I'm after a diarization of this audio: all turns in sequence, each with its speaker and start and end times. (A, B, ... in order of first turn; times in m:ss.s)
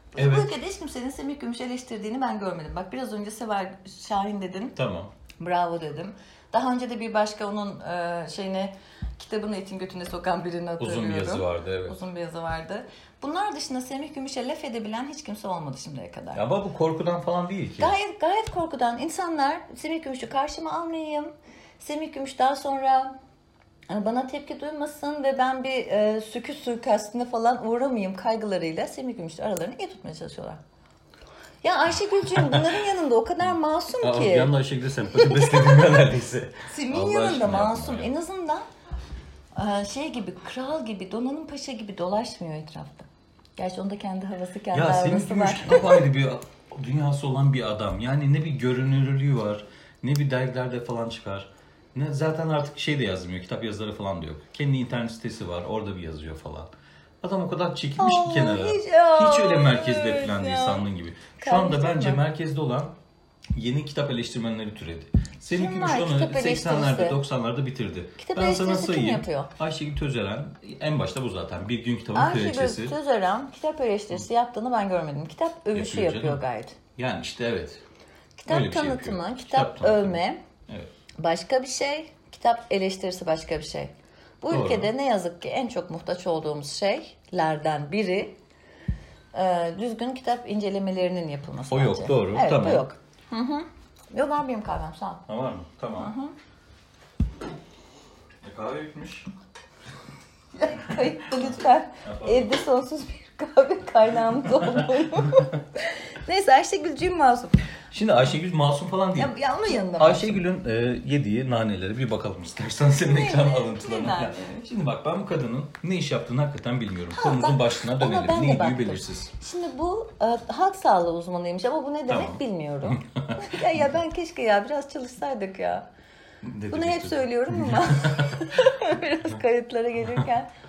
0:00.1-0:04.8 A
0:00.2-0:00.5 B
0:04.7-0:05.1 B
0:05.4-0:16.4 A
0:10.8-0:12.0 B
0:16.3-0:17.9 B
0:17.8-0:23.1 A
0:23.9-0:30.6 A
0:31.6-0:34.5 A
0:32.4-0:32.6 B
0:34.0-0:38.1 B
0:35.1-0:35.9 A
0:36.7-0:38.6 A
0:39.5-0:46.0 A
0:44.7-1:03.0 B
0:58.0-1:00.9 A
1:01.4-1:02.2 A
1:03.5-1:12.9 B
1:05.5-1:07.2 A
1:08.2-1:09.5 A
1:12.1-1:16.8 A
1:15.7-1:16.4 B
1:17.0-1:17.8 B
1:18.4-1:20.4 A
1:18.5-1:20.9 B
1:21.2-1:28.3 A
1:24.5-1:24.9 B
1:29.3-1:35.2 A
1:31.7-1:32.8 B
1:35.3-1:36.1 B
1:36.0-1:36.3 A
1:38.4-1:39.3 B
1:40.5-1:47.6 A
1:42.0-1:42.5 B
1:44.6-1:45.4 B
1:47.9-1:49.3 B
1:49.2-1:50.4 A
1:49.9-1:59.3 B
1:53.0-1:54.6 A
1:57.1-2:05.9 A
2:02.1-2:03.8 B
2:06.4-2:08.5 B
2:06.7-2:10.5 A